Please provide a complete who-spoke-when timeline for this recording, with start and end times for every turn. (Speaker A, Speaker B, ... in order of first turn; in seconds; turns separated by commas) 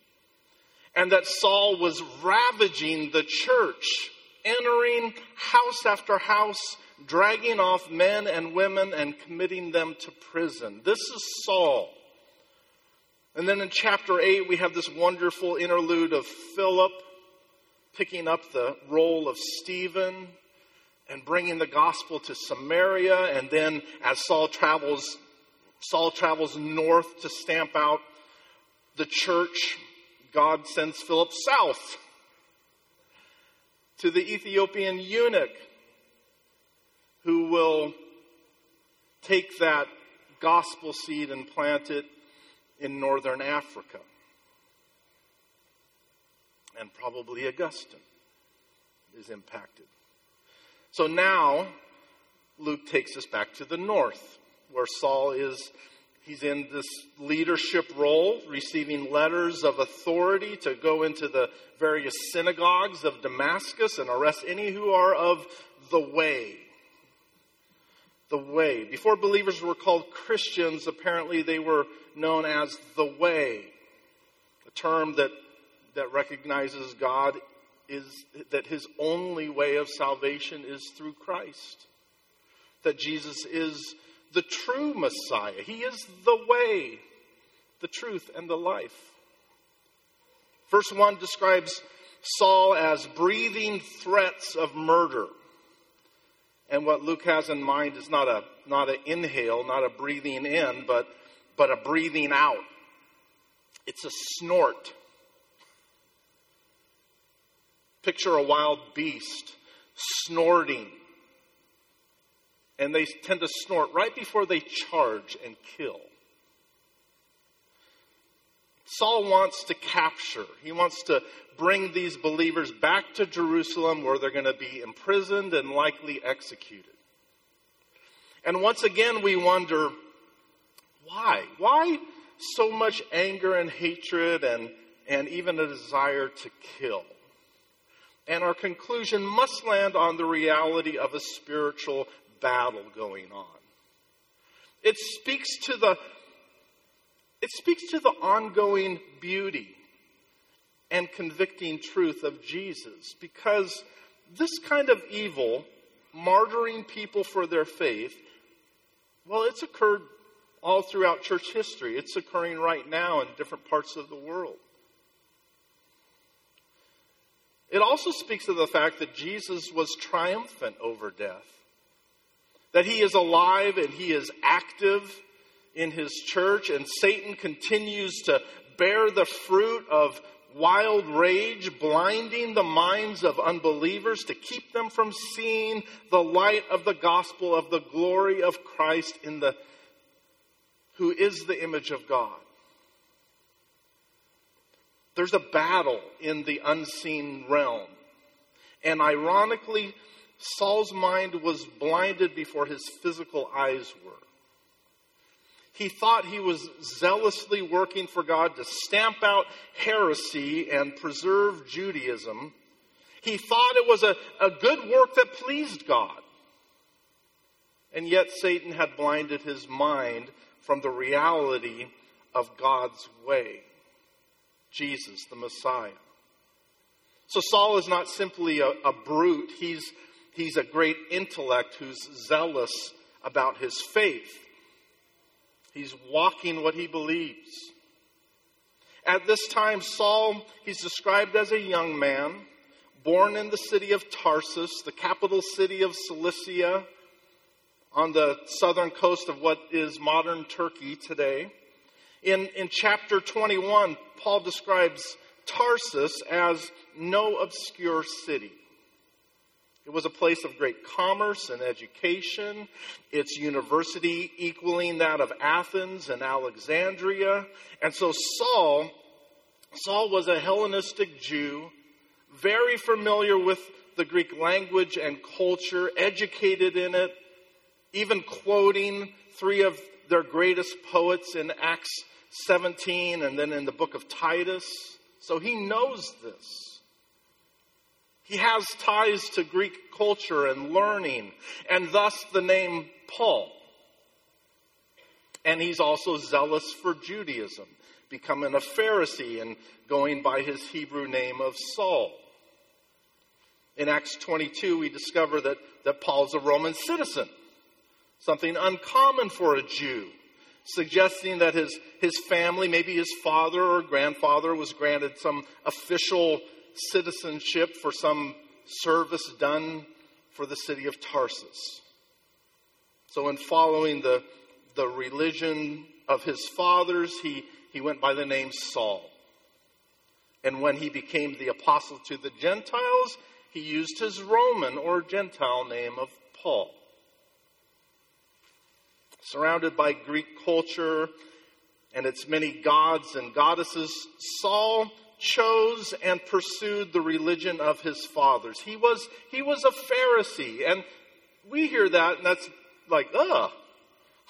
Speaker A: 0.9-12.0, Speaker A: 13.3-17.0, Speaker A: 17.9-20.4, Speaker A: 21.1-25.2, Speaker A: 25.8-28.0, Speaker A: 28.9-29.8, Speaker A: 30.3-32.0, Speaker A: 34.0-35.6, Speaker A: 37.2-38.0, Speaker A: 39.2-42.1, Speaker A: 42.8-44.0, Speaker A: 46.8-48.0, Speaker A: 49.1-49.9, Speaker A: 50.9-51.7, Speaker A: 52.6-55.7, Speaker A: 56.2-66.7, Speaker A: 68.3-73.7, Speaker A: 74.7-75.3, Speaker A: 75.9-81.9, Speaker A: 82.8-87.0, Speaker A: 87.8-89.1, Speaker A: 90.7-95.3, Speaker A: 96.7-102.6, Speaker A: 103.9-105.0, Speaker A: 108.0-111.0, Speaker A: 112.8-116.1, Speaker A: 118.9-127.0, Speaker A: 128.4-129.9, Speaker A: 131.0-137.1, Speaker A: 138.3-143.6, Speaker A: 144.8-146.0, Speaker A: 147.4-149.8, Speaker A: 150.9-158.2, Speaker A: 159.3-160.1, Speaker A: 160.6-164.6, Speaker A: 167.7-171.6, Speaker A: 172.7-175.2, Speaker A: 175.8-189.6, Speaker A: 190.9-192.4, Speaker A: 195.2-197.9, Speaker A: 198.8-204.2, Speaker A: 205.7-212.6, Speaker A: 213.2-216.2, Speaker A: 217.9-223.7, Speaker A: 224.7-226.0, Speaker A: 227.3-234.5, Speaker A: 235.7-237.7, Speaker A: 239.1-242.5, Speaker A: 243.0-246.9, Speaker A: 247.9-251.5, Speaker A: 252.2-258.6, Speaker A: 259.9-268.9, Speaker A: 269.8-271.7, Speaker A: 272.3-277.1, Speaker A: 277.9-286.8, Speaker A: 288.2-293.6, Speaker A: 295.4-302.2, Speaker A: 303.8-307.3, Speaker A: 308.2-310.1, Speaker A: 310.6-321.8, Speaker A: 323.1-329.1, Speaker A: 330.4-336.8, Speaker A: 339.2-341.1, Speaker A: 341.9-350.9, Speaker A: 351.4-353.5